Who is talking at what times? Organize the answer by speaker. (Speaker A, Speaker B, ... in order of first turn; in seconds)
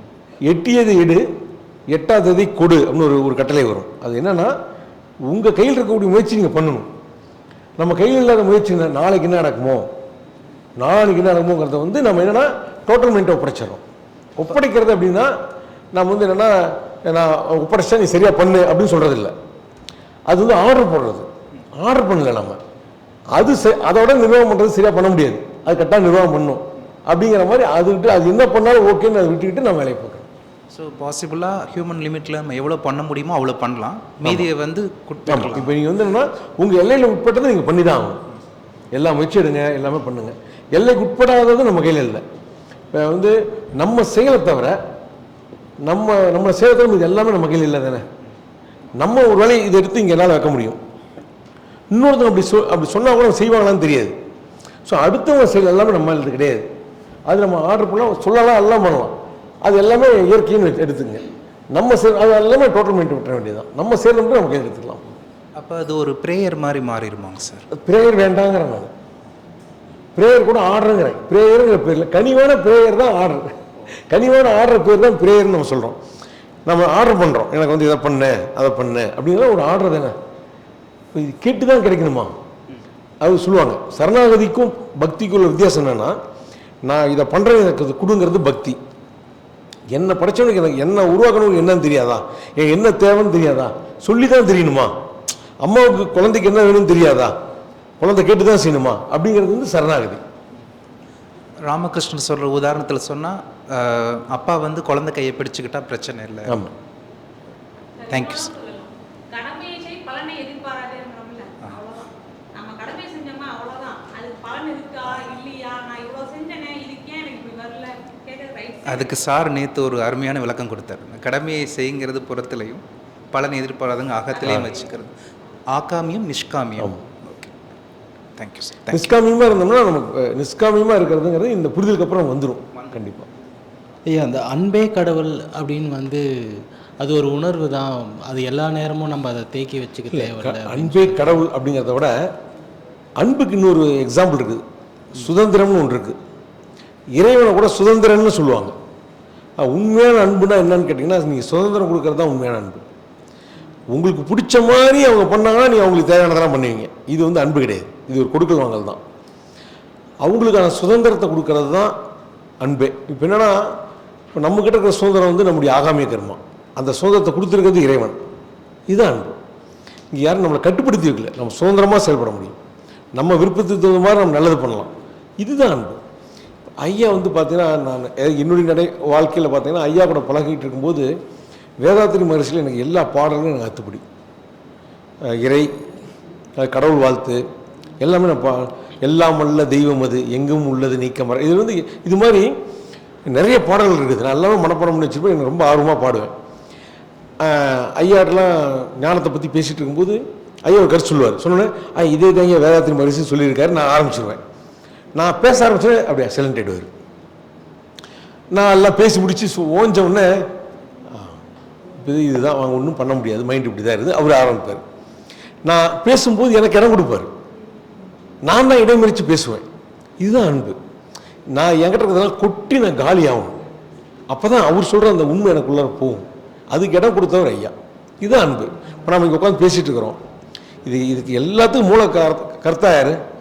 Speaker A: 0.5-1.2, 1.9-4.5, 5.3-6.9, 7.8-9.9, 10.8-13.8, 14.4-15.3, 15.9-19.3, 20.3-21.3, 21.8-22.6, 23.4-30.3, 35.3-38.2, 38.9-42.2, 42.9-44.8, 45.9-48.0, 49.0-50.8, 51.9-54.1, 54.9-56.6, 57.3-65.1, 67.8-68.9, 70.2-73.5, 74.1-76.0, 76.7-80.2, 81.1-82.3, 83.2-86.2, 86.8-88.8, 89.9-94.9, 95.6-97.3, 98.0-100.2, 106.5-106.7, 128.9-133.3, 140.1-142.2, 143.2-144.6, 145.1-146.2, 147.1-148.8, 149.6-152.8, 153.9-159.0, 160.2-161.9, 162.6-163.6, 164.3-168.2, 168.9-169.4, 170.1-172.6, 173.1-176.0, 176.8-181.1, 181.8-184.0, 185.3-185.7, 186.6-187.4, 188.0-192.5, 193.3-196.3, 197.4-204.4, 205.2-206.9, 208.5-210.4, 211.1-211.4, 212.0-214.8, 215.7-217.3, 218.4-219.7, 220.2-220.8, 221.5-223.6, 224.3-230.2, 230.8-233.2
Speaker B: 30.7-35.7, 65.6-67.7, 101.7-106.6, 108.1-108.5, 118.8-125.1, 125.8-127.5, 128.4-129.1
Speaker C: 108.1-119.2, 124.3-124.6
Speaker D: 134.1-141.3